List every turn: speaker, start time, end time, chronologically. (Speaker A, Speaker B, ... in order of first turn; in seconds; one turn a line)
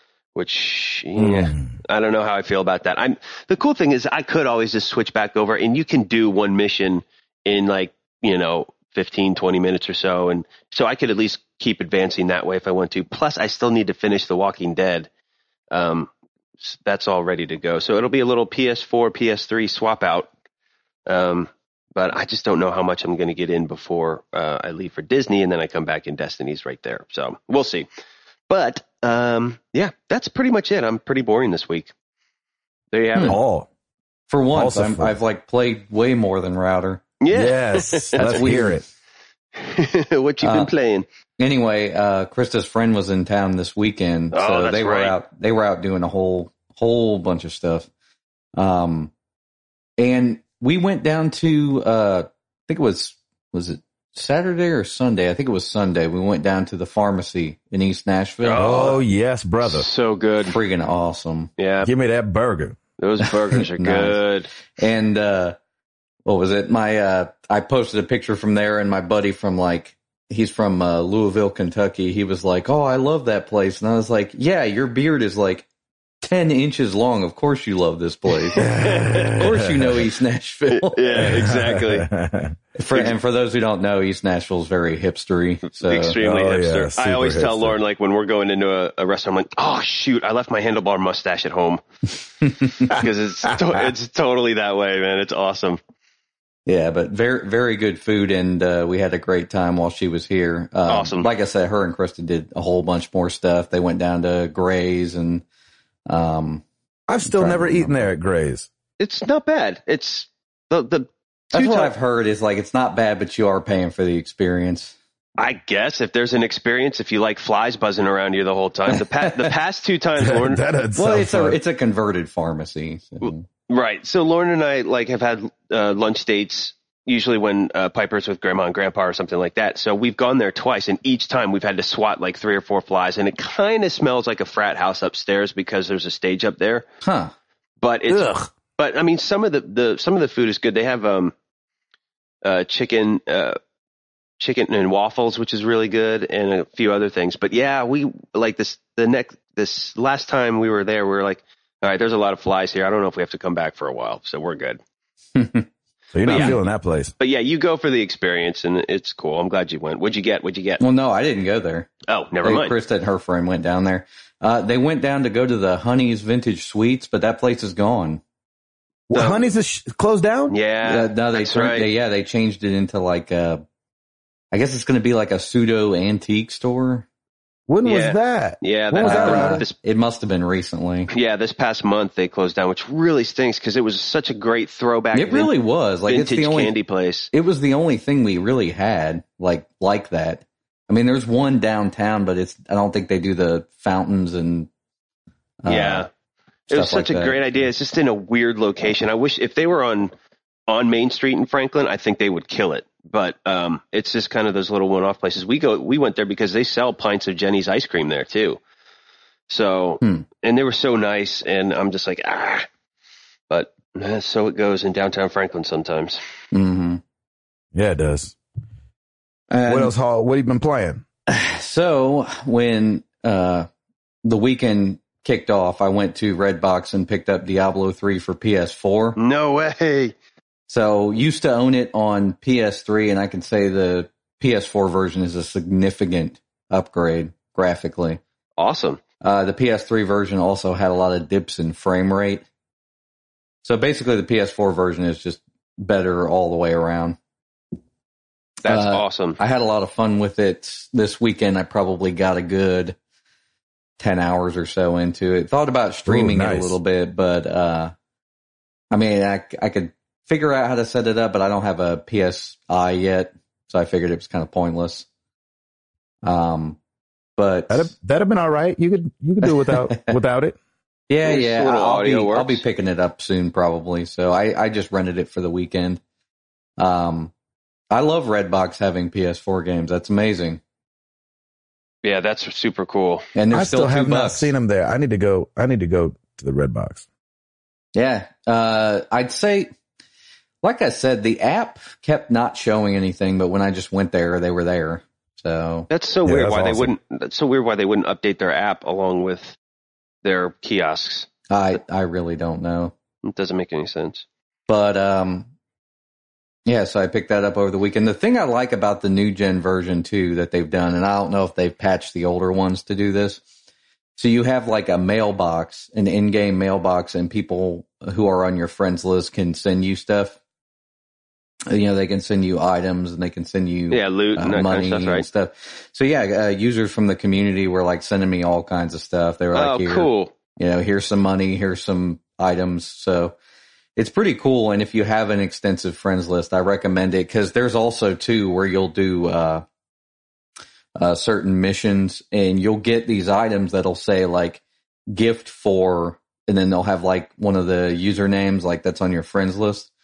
Speaker A: 0.3-15.1
Speaker B: 1.2-1.7
Speaker A: 15.7-16.1
Speaker A: 16.6-20.3
Speaker A: 21.1-27.9
Speaker A: 28.5-31.9
Speaker A: 32.9-33.4
Speaker B: 33.3-33.7
Speaker C: 34.3-37.0
Speaker B: 34.5-35.2
Speaker A: 37.2-38.7
Speaker B: 37.3-38.9
Speaker C: 38.2-38.8
Speaker A: 39.6-41.1
Speaker C: 40.4-40.7
Speaker C: 41.4-47.9
Speaker A: 44.3-45.2
Speaker C: 48.6-49.1
Speaker C: 50.0-58.9
Speaker A: 58.4-59.0
Speaker B: 58.6-59.9
Speaker A: 59.6-60.6
Speaker C: 60.5-61.5
Speaker A: 61.6-61.9
Speaker B: 61.8-62.8
Speaker A: 63.0-64.5
Speaker C: 63.5-65.6
Speaker C: 66.3-75.7
Speaker C: 76.2-81.4
Speaker A: 78.5-79.5
Speaker B: 78.6-80.1
Speaker A: 80.7-82.1
Speaker B: 81.2-82.6
Speaker C: 82.8-86.2
Speaker A: 85.7-91.8
Speaker B: 86.2-87.8
Speaker A: 92.6-95.8
Speaker B: 92.9-93.7
Speaker C: 96.7-105.4
Speaker A: 100.9-101.3
Speaker C: 106.1-106.6
Speaker B: 107.1-108.7
Speaker C: 107.2-108.0
Speaker A: 109.0-111.9
Speaker C: 111.5-115.0
Speaker A: 115.4-120.6
Speaker B: 120.2-121.6
Speaker C: 121.0-123.5
Speaker A: 123.7-136.9
Speaker C: 137.0-137.3
Speaker A: 137.8-141.3
Speaker B: 138.1-138.4
Speaker A: 142.4-143.6
Speaker A: 144.4-154.8
Speaker C: 155.4-155.7
Speaker B: 156.1-157.1
Speaker A: 156.2-156.6
Speaker A: 157.2-160.8
Speaker C: 160.8-161.9
Speaker A: 162.1-162.7
Speaker C: 162.4-168.2
Speaker B: 169.1-170.6
Speaker A: 169.1-169.4
Speaker A: 170.5-171.9
Speaker C: 170.8-173.6
Speaker C: 174.5-177.1
Speaker B: 177.7-179.7
Speaker A: 177.8-179.8
Speaker C: 179.0-181.1
Speaker A: 181.1-185.5
Speaker C: 185.1-186.7
Speaker A: 186.1-187.3
Speaker C: 187.3-194.7
Speaker C: 195.6-196.1
Speaker A: 195.7-196.1
Speaker A: 196.7-200.1
Speaker C: 196.7-197.4
Speaker A: 200.7-208.6
Speaker A: 209.5-212.7
Speaker A: 213.5-216.2
Speaker C: 216.5-217.0
Speaker B: 217.7-218.4
Speaker C: 219.5-219.9
Speaker B: 219.7-221.0
Speaker C: 221.3-223.7
Speaker C: 224.2-229.2
Speaker A: 229.2-230.2
Speaker C: 230.7-238.2
Speaker A: 238.6-239.0
Speaker C: 239.2-242.4
Speaker C: 243.6-247.2
Speaker A: 248.6-249.4
Speaker C: 248.6-253.0
Speaker C: 254.0-257.9
Speaker B: 256.1-256.8
Speaker C: 258.9-265.1
Speaker C: 266.2-266.8
Speaker C: 267.4-267.9
Speaker B: 267.7-270.6
Speaker C: 269.4-270.2
Speaker C: 271.1-276.0
Speaker A: 271.2-272.6
Speaker C: 276.8-277.3
Speaker C: 277.9-280.6
Speaker A: 282.0-283.3
Speaker C: 283.4-284.5
Speaker B: 283.5-287.1
Speaker C: 287.9-289.7
Speaker C: 290.6-295.9
Speaker A: 295.9-299.6
Speaker B: 296.2-296.9
Speaker A: 300.2-301.3
Speaker C: 301.5-302.9
Speaker A: 303.2-304.3
Speaker C: 304.7-305.5
Speaker C: 306.6-313.4
Speaker C: 314.2-320.4
Speaker C: 321.7-333.4
Speaker A: 323.9-325.3
Speaker A: 329.5-330.3
Speaker C: 334.0-339.6
Speaker C: 341.0-349.9